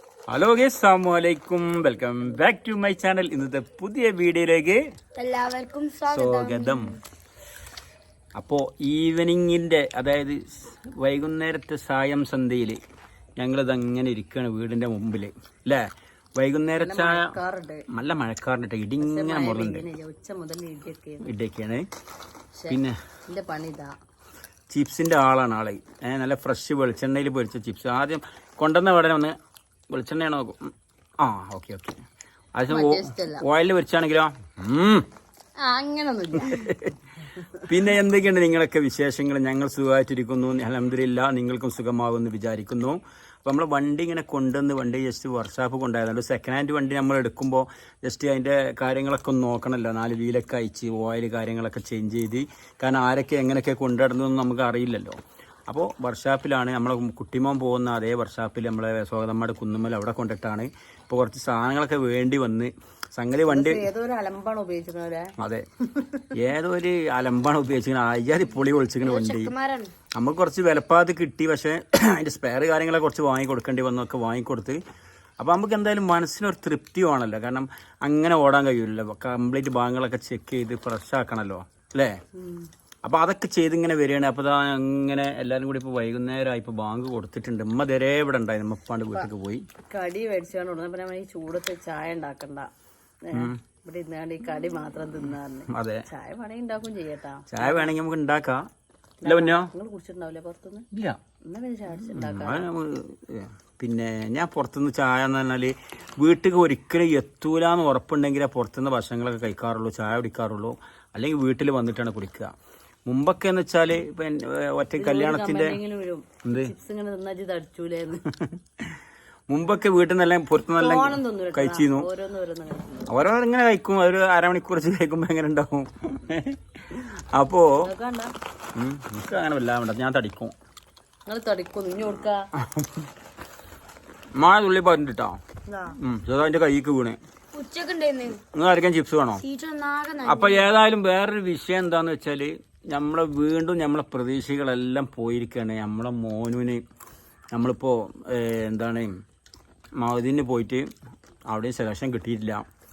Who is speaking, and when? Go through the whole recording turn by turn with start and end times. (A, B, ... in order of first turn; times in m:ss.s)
0:00.3-0:04.8 A
0:05.2-0:06.8 B
0:06.1-0:07.0 A
0:08.4-0:12.8 A
0:13.4-0:15.9 A
0:16.4-0:17.4 A
0:16.8-0:17.9 C
0:17.9-0:19.8 A
0:19.0-0:21.3 C
0:21.2-0:21.8 A
0:22.6-0:23.9 C
0:22.7-0:23.0 A
0:24.7-0:29.4 A
0:29.9-0:32.0 A
0:32.6-0:35.1 A
0:32.7-0:33.4 C
0:35.6-0:36.8 C
0:36.4-0:37.0 A
0:37.5-0:55.2 A
0:55.7-1:03.8 A
1:03.4-1:06.3 C
1:05.4-1:05.6 A
1:06.3-1:09.5 A
1:09.0-1:09.9 B
1:10.1-1:14.8 A
1:15.4-1:22.2 A
1:22.3-1:22.7 C
1:23.0-1:29.7 A
1:29.9-1:32.7 C
1:33.2-1:37.9 C
1:33.3-1:33.6 A
1:35.7-1:36.0 A
1:37.5-1:38.6 A
1:39.2-1:40.9 C
1:39.2-1:39.7 A
1:40.9-1:41.2 A
1:41.4-1:42.7 C
1:42.1-1:52.5 A
1:53.1-1:55.8 A
1:55.0-1:58.2 C
1:56.4-1:56.7 A
1:58.3-1:59.0 A
1:59.5-2:02.1 A
2:00.7-2:03.2 C
2:03.0-2:07.9 A
2:07.8-2:08.3 C
2:08.8-2:10.5 A
2:11.3-2:12.5 C
2:12.6-2:13.0 A
2:14.4-2:15.4 A
2:15.7-2:16.0 C
2:15.9-2:17.2 A
2:17.5-2:18.4 B
2:18.5-2:19.4 A
2:19.4-2:20.7 B
2:20.2-2:26.8 A
2:27.5-2:29.1 A
2:30.0-2:30.9 A
2:31.5-2:32.6 A